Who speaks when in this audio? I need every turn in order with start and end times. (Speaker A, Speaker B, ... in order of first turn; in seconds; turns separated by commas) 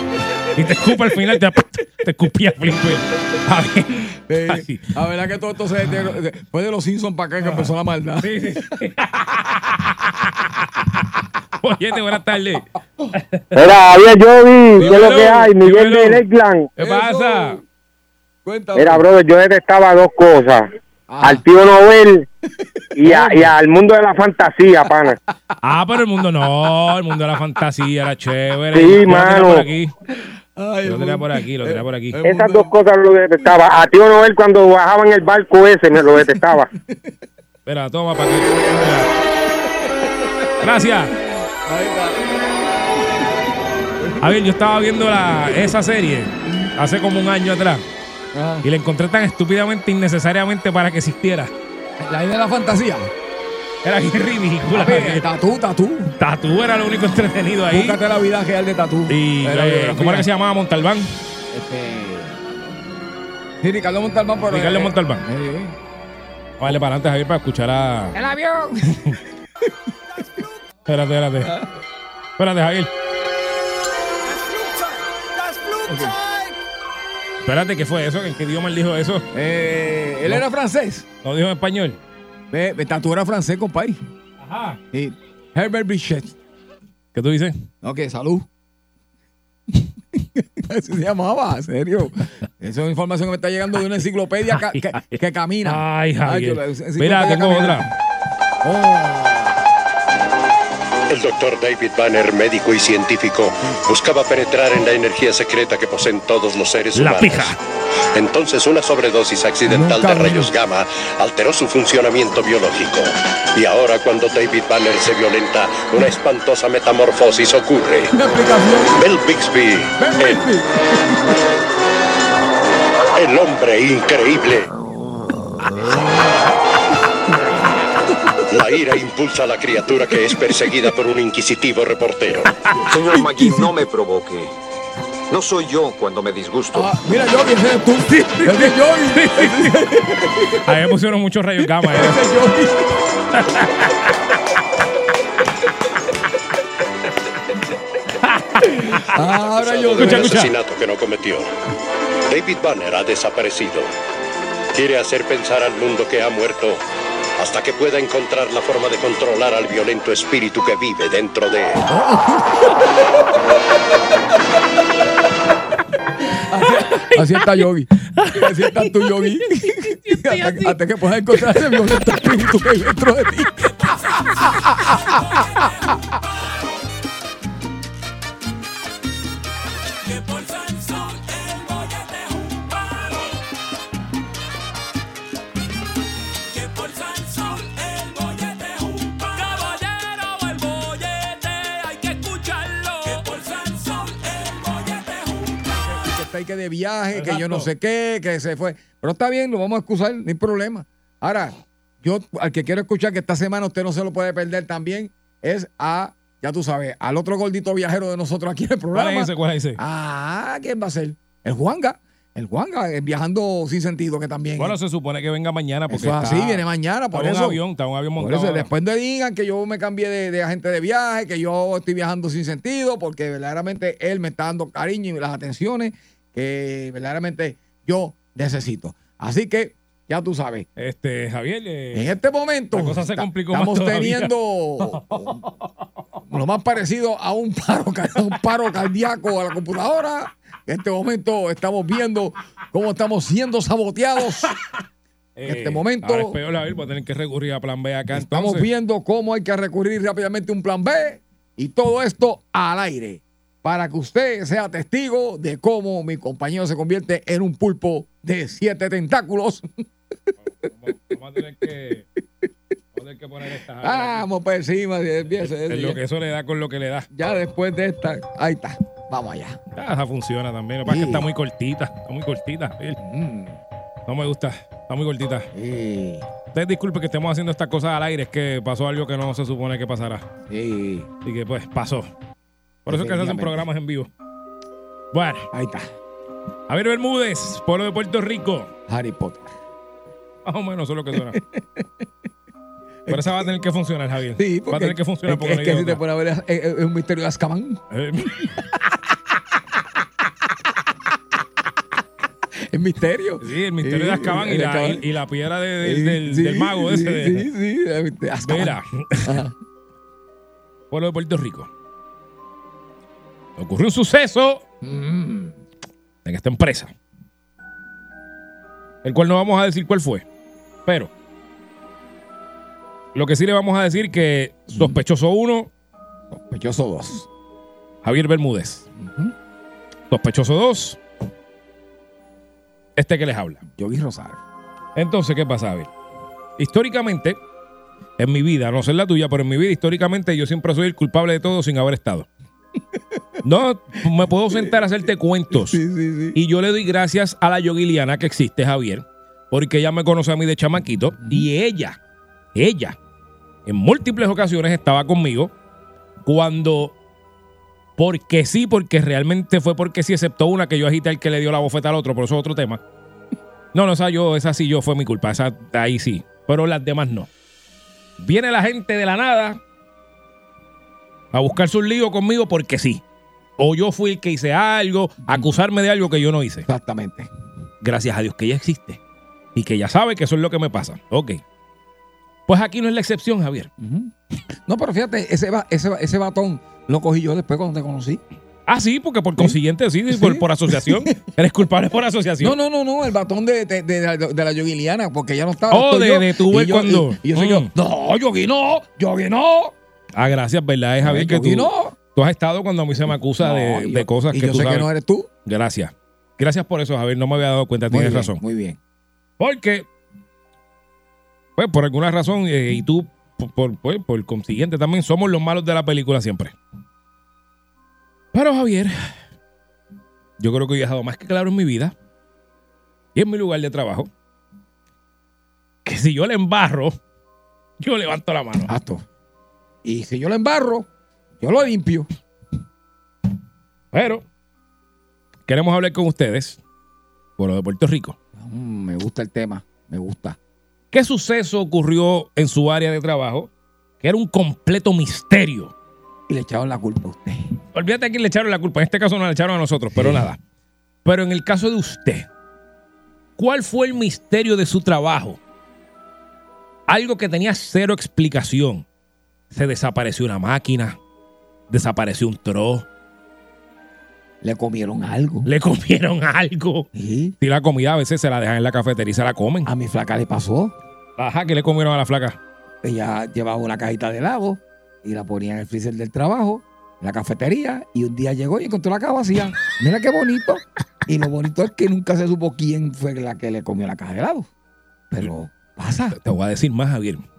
Speaker A: 0.6-4.9, Speaker B: 4.3-8.3, Speaker A: 7.4-10.6, Speaker A: 11.6-13.7, Speaker C: 13.6-16.7, Speaker A: 14.8-17.6, Speaker B: 14.8-15.3, Speaker B: 16.8-17.6, Speaker B: 18.4-19.1, Speaker C: 18.8-20.6, Speaker B: 21.1-21.5, Speaker C: 21.2-22.2, Speaker B: 22.6-23.6, Speaker C: 23.0-25.1, Speaker A: 25.6-29.9, Speaker C: 28.7-29.6, Speaker B: 30.1-32.8, Speaker A: 30.9-32.2, Speaker C: 32.2-36.6, Speaker B: 36.1-37.1, Speaker A: 37.7-39.1, Speaker B: 39.7-40.5, Speaker A: 40.6-41.2, Speaker B: 41.7-42.3, Speaker B: 44.0-44.3, Speaker A: 44.2-47.9, Speaker B: 48.3-48.7, Speaker A: 48.6-51.5, Speaker B: 52.0-53.1, Speaker A: 53.8-55.3, Speaker B: 54.7-56.1, Speaker A: 56.2-58.0, Speaker B: 57.7-60.3, Speaker A: 59.1-61.1, Speaker B: 61.5-62.4, Speaker B: 63.6-65.8, Speaker A: 64.5-65.2, Speaker A: 66.6-68.2, Speaker B: 68.1-70.4, Speaker A: 70.9-71.5, Speaker B: 71.4-71.7, Speaker A: 72.4-72.9, Speaker B: 74.4-76.2, Speaker A: 77.4-79.3, Speaker B: 79.3-81.1, Speaker A: 81.2-82.0, Speaker B: 82.5-84.0, Speaker A: 84.4-84.8, Speaker B: 84.9-86.3, Speaker A: 87.1-87.5, Speaker B: 87.8-88.5, Speaker B: 89.7-97.9, Speaker A: 94.5-95.0, Speaker A: 95.7-97.9, Speaker B: 98.6-99.6, Speaker D: 101.1-107.5, Speaker A: 107.0-107.6, Speaker D: 108.2-118.1, Speaker B: 109.7-110.5, Speaker B: 118.1-119.0, Speaker D: 118.9-120.5, Speaker B: 120.0-121.4, Speaker D: 123.2-124.7, Speaker B: 125.8-126.4, Speaker D: 128.5-132.5, Speaker B: 132.7-133.8, Speaker E: 132.9-134.5, Speaker E: 135.3-136.9, Speaker B: 136.7-140.7, Speaker A: 138.1-139.9, Speaker A: 140.6-142.3, Speaker B: 141.8-142.9, Speaker A: 143.3-144.1, Speaker A: 148.2-149.1, Speaker B: 148.6-150.4, Speaker D: 149.6-151.5, Speaker A: 150.0-150.5, Speaker D: 152.3-153.9, Speaker D: 154.7-156.8, Speaker D: 157.4-161.8, Speaker B: 161.9-163.0, Speaker B: 166.5-175.9, Speaker A: 166.7-167.5, Speaker A: 168.2-170.8, Speaker A: 171.4-171.8, Speaker A: 173.8-174.6, Speaker A: 175.1-175.7, Speaker A: 180.0-183.4, Speaker A: 186.5-195.6, Speaker B: 195.9-214.8, Speaker A: 197.1-197.7, Speaker A: 208.9-209.8, Speaker A: 214.6-218.7, Speaker B: 215.9-217.6, Speaker B: 218.2-230.7, Speaker A: 230.8-232.1, Speaker B: 231.9-235.4, Speaker A: 232.7-235.3, Speaker B: 236.3-244.5, Speaker A: 245.4-248.7, Speaker B: 245.4-246.4, Speaker B: 248.1-259.7, Speaker A: 260.6-262.1, Speaker A: 262.9-264.2, Speaker B: 263.8-266.0, Speaker A: 265.6-267.1, Speaker B: 267.1-269.6, Speaker A: 269.8-273.0, Speaker B: 270.9-271.3, Speaker B: 273.0-273.6, Speaker A: 274.1-275.5, Speaker B: 275.5-276.3, Speaker A: 276.5-280.3, Speaker B: 280.5-281.1, Speaker A: 281.2-282.1, Speaker A: 282.9-284.1, Speaker B: 282.9-283.6, Speaker A: 285.1-285.5, Speaker B: 285.5-285.9, Speaker A: 286.7-288.7, Speaker B: 288.9-289.5, Speaker A: 290.4-291.4, Speaker B: 291.2-292.1, Speaker B: 293.1-293.4, Speaker A: 293.1-296.0, Speaker B: 294.4-297.8, Speaker A: 297.9-298.5, Speaker B: 302.7-305.0, Speaker A: 303.4-307.5, Speaker B: 305.8-309.5, Speaker A: 308.4-309.4, Speaker A: 310.9-311.7, Speaker A: 313.6-314.6, Speaker B: 314.8-315.6, Speaker A: 316.2-316.9, Speaker A: 319.0-320.2, Speaker A: 323.1-325.7, Speaker B: 324.7-325.0, Speaker B: 326.3-327.3, Speaker A: 328.0-328.9, Speaker B: 329.0-329.3, Speaker A: 330.1-331.0, Speaker A: 333.0-333.6, Speaker B: 333.8-334.4, Speaker A: 335.0-335.9, Speaker A: 336.6-337.4, Speaker A: 338.2-342.3, Speaker A: 343.4-345.8, Speaker B: 344.5-344.9, Speaker B: 345.5-346.4, Speaker A: 346.3-352.0, Speaker B: 351.2-351.5, Speaker A: 352.6-353.0, Speaker A: 353.7-355.5, Speaker A: 356.2-356.9, Speaker A: 358.0-362.8, Speaker A: 363.7-367.3, Speaker A: 368.2-369.6, Speaker A: 371.3-373.0, Speaker A: 373.6-376.7, Speaker B: 376.7-377.3, Speaker A: 377.8-379.0, Speaker A: 379.6-381.4, Speaker A: 382.5-383.7, Speaker B: 383.8-384.1, Speaker B: 384.7-388.2, Speaker A: 388.7-392.6, Speaker B: 390.1-391.1, Speaker B: 392.4-399.8, Speaker A: 395.7-397.7, Speaker A: 400.1-404.9, Speaker B: 401.0-401.9, Speaker B: 403.4-405.3, Speaker A: 405.5-408.4, Speaker B: 407.9-408.8, Speaker A: 409.4-409.9, Speaker A: 411.6-416.5, Speaker A: 418.3-418.9, Speaker A: 420.4-421.9, Speaker A: 423.1-424.1, Speaker A: 425.9-426.9, Speaker A: 427.8-428.7, Speaker B: 428.7-429.0, Speaker B: 429.8-430.9, Speaker B: 431.4-432.1, Speaker A: 433.9-434.2, Speaker A: 435.5-436.6, Speaker A: 437.4-438.2, Speaker B: 438.4-440.4, Speaker A: 440.9-443.5, Speaker A: 444.0-445.7, Speaker B: 446.3-447.6, Speaker A: 447.7-450.4, Speaker B: 450.0-450.2, Speaker A: 451.1-452.3, Speaker A: 453.4-455.4, Speaker A: 456.9-458.9, Speaker A: 459.5-461.0, Speaker A: 461.7-462.9, Speaker B: 464.4-465.5, Speaker A: 465.5-466.9, Speaker B: 466.9-467.4, Speaker A: 467.4-469.7, Speaker B: 469.6-470.7, Speaker A: 471.2-472.4, Speaker B: 472.8-484.5, Speaker B: 485.1-486.2, Speaker A: 486.1-487.2